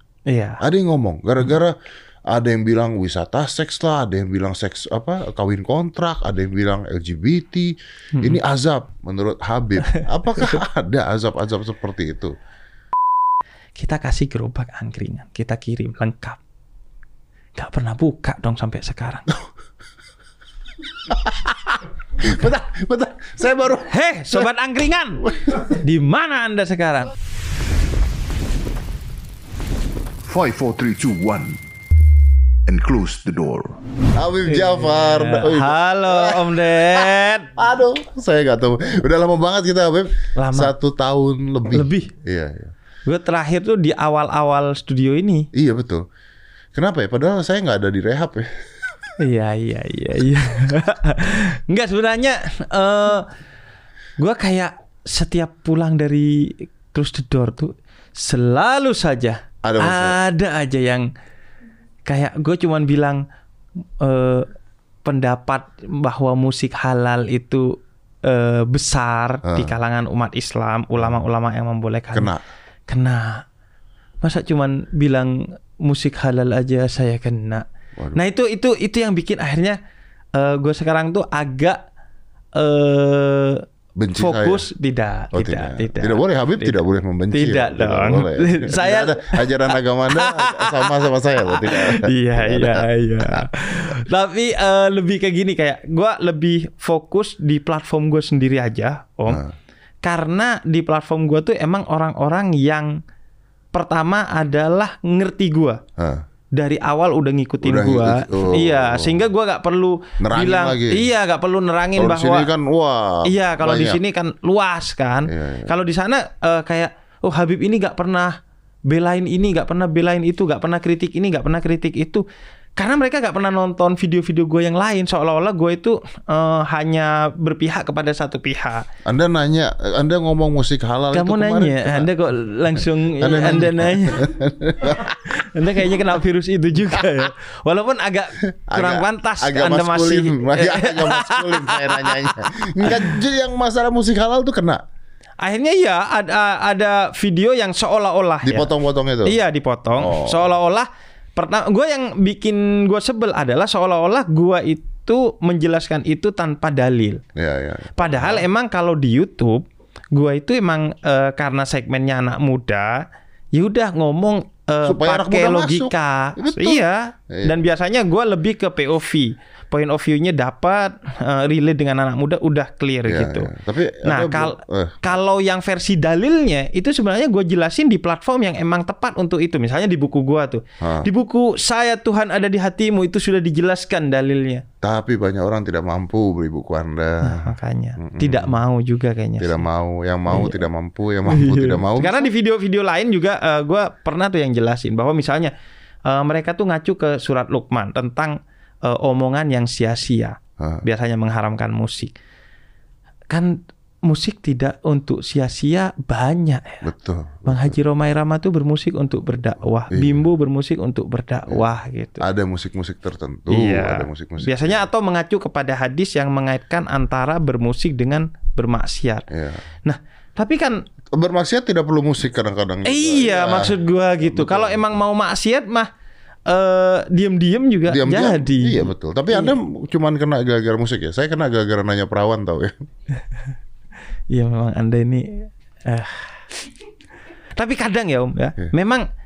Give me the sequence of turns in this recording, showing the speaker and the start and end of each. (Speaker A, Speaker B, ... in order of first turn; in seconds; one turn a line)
Speaker A: 0.3-0.6
Speaker B: 0.6-1.7
Speaker B: 2.3-12.3
Speaker A: 10.0-10.6
Speaker A: 13.8-16.4
Speaker A: 17.6-19.2
Speaker B: 21.1-23.9
Speaker A: 23.9-27.1
Speaker B: 25.4-25.8
Speaker C: 30.3-31.6
Speaker C: 32.7-33.8
Speaker B: 34.1-42.7
Speaker A: 34.5-37.5
Speaker A: 40.4-40.7
Speaker A: 41.7-42.1
Speaker A: 43.0-45.5
Speaker B: 45.5-46.0
Speaker B: 46.7-48.5
Speaker A: 49.2-53.3
Speaker A: 54.2-61.1
Speaker B: 59.6-60.2
Speaker A: 62.0-63.2
Speaker A: 64.0-64.5
Speaker A: 65.0-72.3
Speaker B: 69.4-69.7
Speaker B: 72.1-72.4
Speaker A: 72.9-73.5
Speaker A: 74.2-79.8
Speaker A: 80.3-81.8
Speaker A: 82.5-83.6
Speaker B: 84.0-84.7
Speaker A: 84.2-86.8
Speaker B: 85.3-93.5
Speaker A: 87.3-99.4
Speaker B: 99.3-99.5
Speaker A: 100.0-103.0
Speaker A: 103.7-105.8
Speaker B: 106.0-106.2
Speaker A: 106.5-112.5
Speaker B: 107.6-109.2
Speaker B: 110.2-111.1
Speaker B: 112.0-114.0
Speaker A: 113.2-122.2
Speaker B: 115.3-115.7
Speaker A: 122.8-128.9
Speaker B: 129.1-132.1
Speaker A: 131.1-134.2
Speaker B: 133.2-135.4
Speaker A: 134.8-143.2
Speaker B: 138.5-144.8
Speaker A: 145.4-148.7
Speaker B: 148.4-149.4
Speaker A: 149.2-157.2
Speaker B: 150.0-150.4
Speaker B: 157.4-158.4
Speaker A: 158.0-173.5
Speaker B: 164.8-167.5
Speaker B: 173.1-175.1
Speaker A: 174.1-184.6
Speaker B: 180.8-181.1
Speaker B: 184.8-188.6
Speaker A: 187.2-189.6
Speaker B: 189.4-192.3
Speaker A: 190.3-190.7
Speaker A: 191.2-195.5
Speaker A: 196.1-202.1
Speaker A: 203.3-206.9
Speaker B: 206.8-207.8
Speaker A: 207.4-212.2
Speaker B: 209.9-210.2
Speaker B: 212.2-214.8
Speaker A: 213.5-219.3
Speaker B: 219.3-219.6
Speaker A: 219.8-220.8
Speaker B: 221.2-224.9
Speaker A: 222.8-225.9
Speaker A: 226.5-229.5
Speaker B: 227.9-232.8
Speaker A: 234.3-236.6
Speaker A: 237.6-239.1